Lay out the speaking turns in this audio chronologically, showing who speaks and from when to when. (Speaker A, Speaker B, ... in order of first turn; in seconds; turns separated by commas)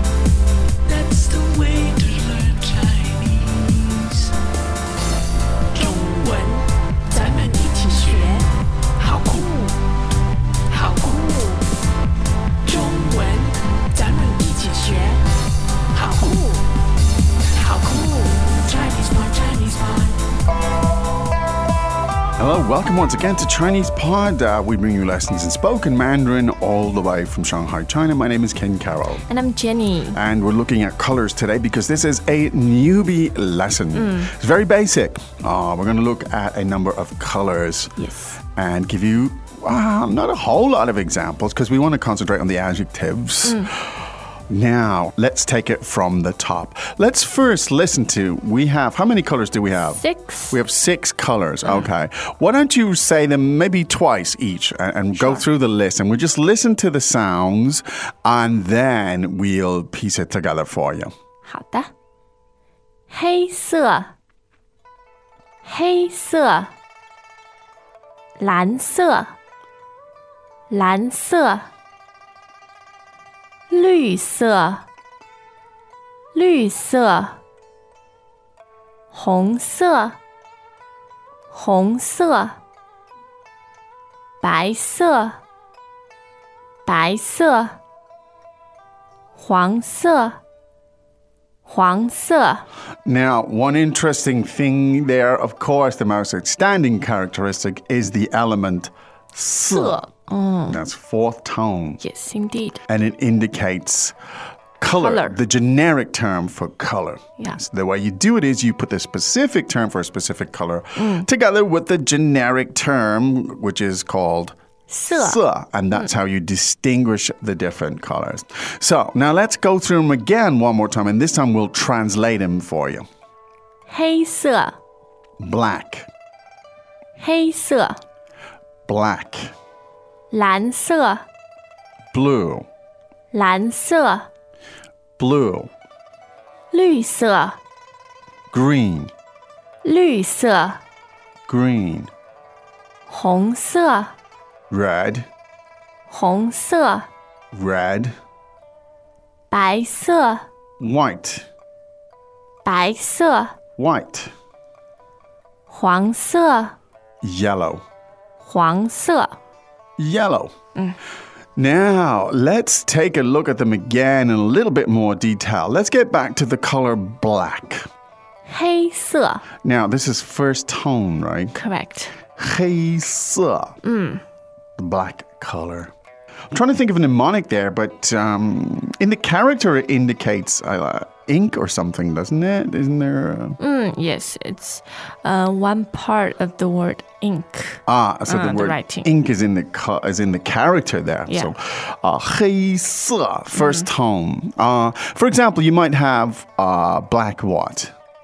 Speaker A: 0.9-4.0, Speaker A: 5.8-6.6, Speaker A: 7.2-8.4, Speaker A: 9.0-9.5, Speaker A: 10.7-11.2, Speaker A: 12.7-15.0, Speaker A: 16.0-16.4, Speaker A: 17.6-20.0, Speaker B: 22.4-29.2, Speaker C: 29.3-30.2, Speaker B: 30.1-61.1, Speaker C: 34.0-34.3, Speaker C: 38.0-38.4, Speaker C: 43.4-43.7, Speaker C: 49.8-50.6, Speaker C: 55.1-55.4, Speaker C: 61.5-61.9, Speaker C: 63.1-64.1, Speaker C: 65.6-66.7, Speaker C: 68.4-69.3, Speaker C: 70.7-71.7, Speaker C: 73.7-74.9, Speaker C: 76.3-77.4, Speaker C: 79.1-80.2, Speaker C: 81.5-82.6, Speaker C: 84.4-85.4, Speaker C: 86.8-87.8, Speaker C: 89.3-90.4, Speaker C: 91.7-92.7, Speaker B: 93.0-100.0, Speaker C: 99.7-100.8, Speaker B: 100.7-102.0, Speaker C: 102.0-102.8, Speaker B: 102.9-104.2, Speaker B: 104.8-114.5, Speaker C: 105.0-105.4, Speaker C: 111.0-111.3, Speaker C: 114.9-115.4, Speaker B: 115.1-123.0, Speaker C: 123.9-124.8, Speaker B: 125.4-126.1, Speaker C: 127.2-128.0, Speaker B: 128.9-129.5, Speaker C: 130.3-131.2, Speaker B: 132.1-132.7, Speaker C: 133.3-134.3, Speaker B: 135.2-135.7, Speaker C: 136.7-137.6, Speaker B: 138.5-139.1, Speaker C: 139.8-140.8, Speaker B: 141.5-142.1, Speaker C: 143.1-144.1, Speaker B: 144.7-145.3, Speaker C: 146.1-147.1, Speaker B: 147.5-148.1, Speaker C: 149.5-150.4, Speaker B: 150.8-151.5, Speaker C: 152.7-153.6, Speaker B: 153.8-154.3, Speaker C: 155.7-156.8, Speaker B: 157.2-157.8, Speaker C: 158.4-159.4, Speaker B: 160.0-160.5, Speaker B: 161.6-167.8, Speaker C: 168.5-169.4, Speaker B: 169.6-171.6, Speaker C: 171.5-172.1, Speaker B: 172.4-173.8, Speaker C: 173.8-174.2, Speaker B: 174.8-175.9, Speaker B: 176.5-183.6, Speaker C: 183.6-189.1, Speaker B: 187.9-197.9, Speaker C: 193.6-193.9